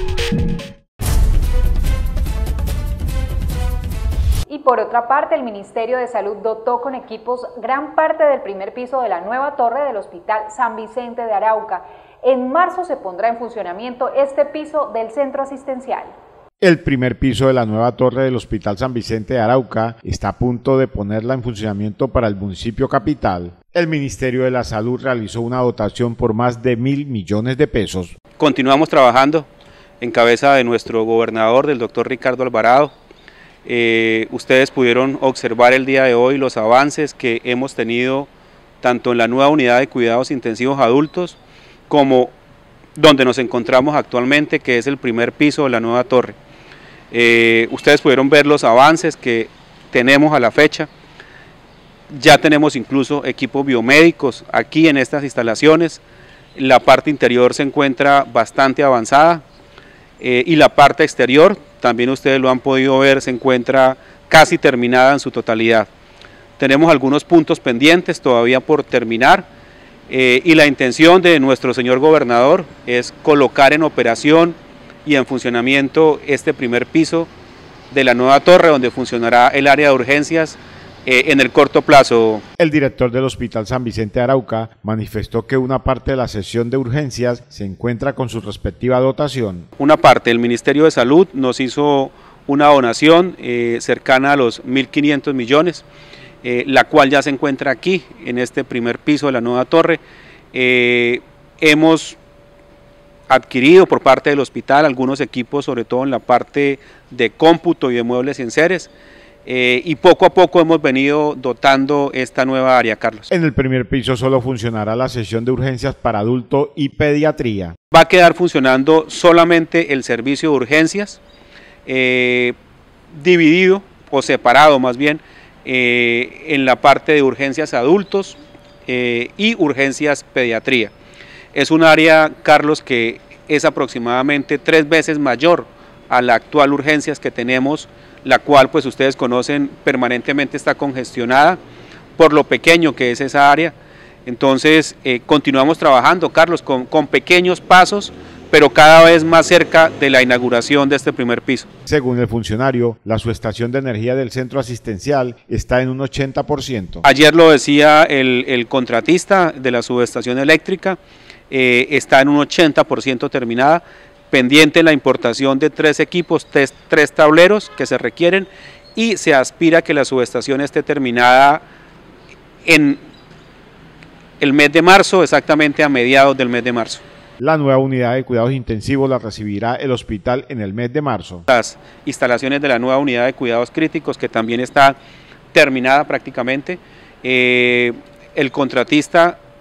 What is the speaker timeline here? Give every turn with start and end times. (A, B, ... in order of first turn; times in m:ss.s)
0:04.5-0:16.1 A
0:16.6-0:28.1 B
0:28.4-0:29.5 C
0:30.0-0:32.9 C
0:33.6-0:38.3 C
0:38.8-0:41.4 C
0:41.9-0:42.3 C
0:43.0-0:46.4 C
0:47.1-0:50.9 C
0:52.1-0:56.0 C
0:56.5-0:59.4 C
1:00.2-1:05.9 C
1:06.6-1:09.5 C
1:10.1-1:17.3 C
1:17.9-1:22.4 C
1:22.6-1:29.7 B
1:29.8-1:35.8 C
1:36.4-1:40.0 C
1:40.5-1:42.2 C
1:43.3-1:48.9 C
1:49.4-1:53.3 C
1:53.3-1:57.8 B
1:57.9-2:01.2 C
2:01.8-2:02.6 C
2:03.1-2:10.9 C
2:11.5-2:21.6 C
2:22.2-2:31.7 C
2:31.9-2:37.0 B
2:37.0-2:41.0 C
2:41.5-2:51.6 C
2:52.6-2:53.0 C
2:54.4-2:57.0 C
2:57.4-3:01.4 B
3:01.5-3:05.0 C
3:05.5-3:09.4 C